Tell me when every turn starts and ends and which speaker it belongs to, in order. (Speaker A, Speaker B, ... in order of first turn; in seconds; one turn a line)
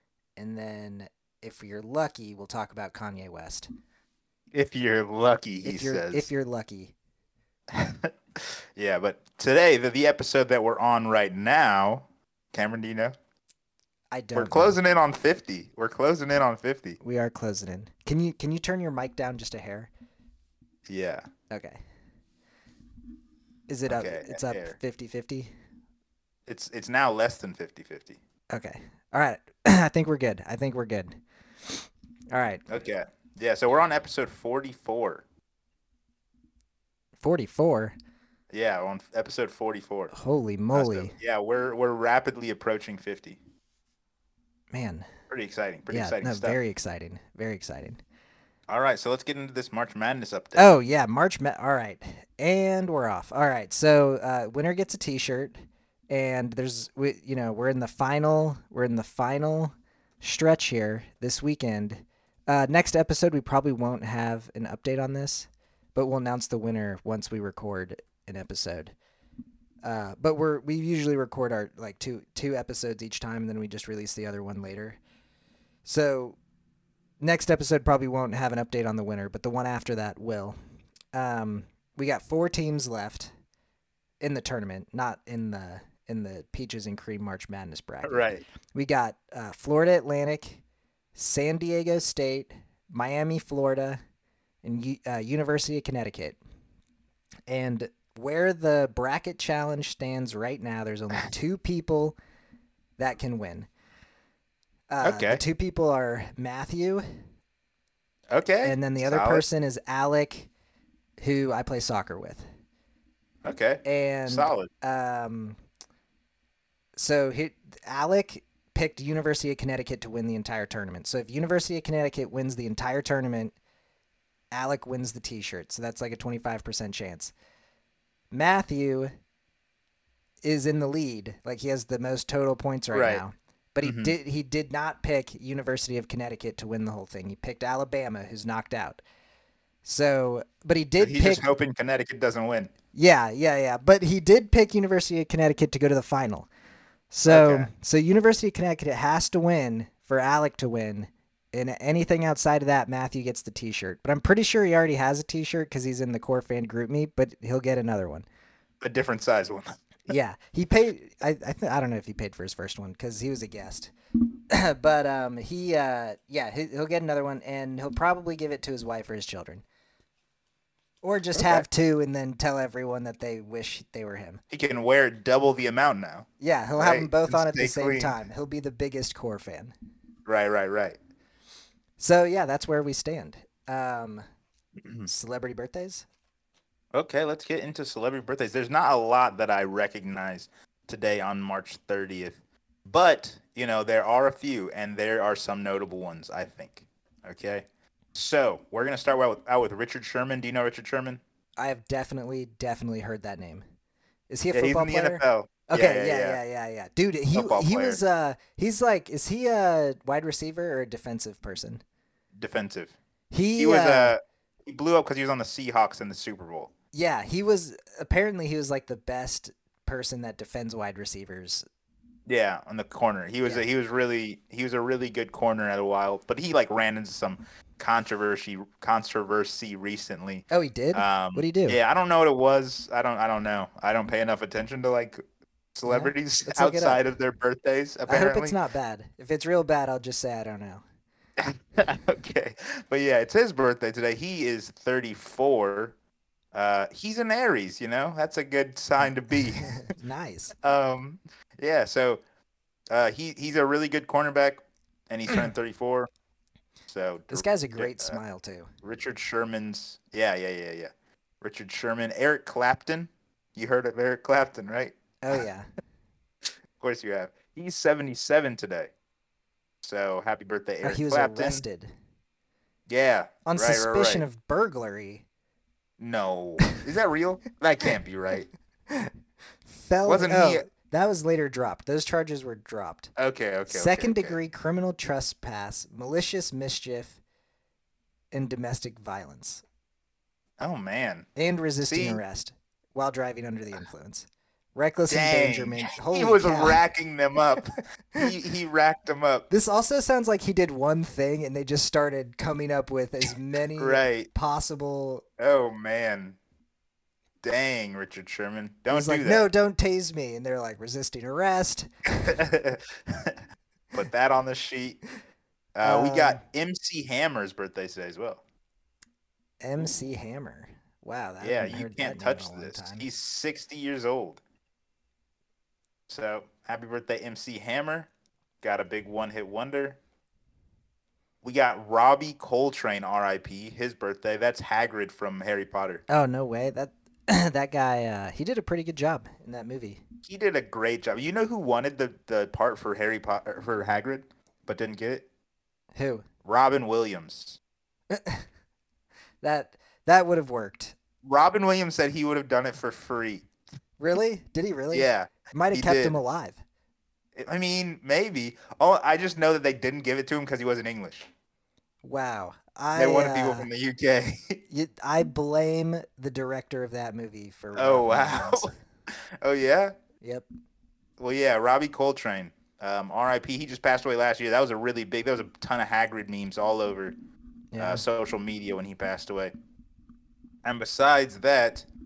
Speaker A: 0.4-3.7
Speaker B: 4.5-6.2
Speaker A: 5.6-6.9
Speaker B: 7.7-13.1
Speaker A: 14.1-14.8
Speaker B: 14.3-17.0
Speaker A: 17.0-19.9
Speaker B: 20.9-21.2
Speaker A: 21.5-21.8
Speaker A: 23.7-25.5
Speaker B: 23.9-24.8
Speaker B: 26.5-28.2
Speaker A: 28.5-32.6
Speaker B: 32.7-35.2
Speaker A: 37.2-38.0
Speaker B: 38.5-40.1
Speaker A: 40.1-41.1
Speaker B: 40.7-43.4
Speaker A: 44.7-45.1
Speaker B: 45.3-46.6
Speaker A: 45.9-48.0
Speaker B: 48.7-50.7
Speaker A: 50.6-55.6
Speaker A: 56.1-69.0
Speaker A: 69.8-75.0
Speaker A: 75.8-76.4
Speaker A: 77.2-80.6
Speaker A: 81.1-83.3
Speaker A: 84.2-90.6
Speaker B: 88.0-88.5
Speaker A: 91.2-94.0
Speaker A: 94.6-96.4
Speaker A: 97.5-102.2
Speaker A: 103.0-103.7
Speaker A: 104.9-107.1
Speaker B: 105.0-105.4
Speaker B: 108.3-109.4
Speaker A: 108.6-110.5
Speaker A: 111.2-112.4
Speaker B: 113.4-114.7
Speaker A: 113.8-115.6
Speaker A: 117.0-123.5
Speaker A: 124.5-127.3
Speaker A: 128.3-129.1
Speaker A: 130.4-139.0
Speaker B: 132.9-133.2
Speaker B: 133.8-134.2
Speaker A: 139.8-141.5
Speaker B: 141.0-142.7
Speaker A: 142.9-146.5
Speaker A: 147.1-158.2
Speaker B: 147.3-147.7
Speaker B: 158.8-160.1
Speaker A: 160.1-163.9
Speaker A: 164.5-169.6
Speaker A: 171.0-174.4
Speaker B: 171.3-171.7
Speaker B: 174.5-176.2
Speaker A: 176.4-179.7
Speaker B: 176.8-178.2
Speaker B: 180.2-181.0
Speaker A: 182.0-184.2
Speaker B: 184.8-185.1
Speaker A: 185.1-186.1
Speaker B: 186.9-201.2
Speaker A: 201.6-203.7
Speaker A: 204.3-211.8
Speaker B: 204.5-206.4
Speaker B: 207.3-208.0
Speaker B: 212.3-212.9
Speaker A: 213.3-214.2
Speaker B: 213.6-216.7
Speaker A: 216.9-221.7
Speaker B: 222.3-235.2
Speaker A: 230.5-231.8
Speaker B: 235.8-238.6
Speaker A: 235.9-237.0
Speaker A: 238.1-240.8
Speaker B: 241.4-245.9
Speaker B: 246.5-249.8
Speaker A: 249.6-250.6
Speaker B: 250.6-252.2
Speaker B: 252.9-256.1
Speaker B: 256.9-258.2
Speaker A: 257.3-258.7
Speaker B: 258.8-264.9
Speaker A: 265.2-265.7
Speaker B: 266.8-268.9
Speaker B: 269.8-271.6
Speaker A: 270.8-271.9
Speaker B: 272.9-274.2
Speaker A: 273.4-275.2
Speaker B: 276.0-278.5
Speaker A: 279.7-283.1
Speaker B: 280.1-280.7
Speaker B: 283.2-284.4
Speaker A: 283.7-287.2
Speaker A: 288.3-289.6
Speaker B: 290.6-291.3
Speaker A: 291.4-296.8
Speaker B: 291.8-292.2
Speaker B: 295.1-299.5
Speaker A: 299.5-305.2
Speaker B: 303.8-304.3
Speaker B: 305.4-306.4
Speaker B: 307.4-309.5
Speaker A: 308.9-312.3
Speaker B: 312.2-313.4
Speaker B: 313.9-315.0
Speaker B: 315.8-318.4
Speaker A: 315.8-316.4
Speaker A: 319.6-323.1
Speaker B: 321.4-324.4
Speaker B: 326.1-328.1
Speaker B: 328.6-330.0
Speaker B: 331.4-336.0
Speaker A: 336.1-340.0
Speaker B: 340.2-345.2
Speaker A: 346.0-346.2
Speaker B: 346.4-347.6
Speaker A: 348.1-348.4
Speaker A: 349.4-350.9
Speaker B: 351.2-353.4
Speaker A: 354.0-356.6
Speaker B: 354.9-356.1
Speaker B: 357.4-361.3
Speaker A: 362.0-363.7
Speaker B: 362.9-364.6
Speaker A: 364.7-368.8
Speaker B: 367.8-368.7
Speaker B: 369.4-369.9
Speaker A: 370.2-370.4
Speaker B: 371.2-377.1
Speaker A: 377.7-378.0
Speaker B: 377.8-379.5
Speaker B: 380.6-381.9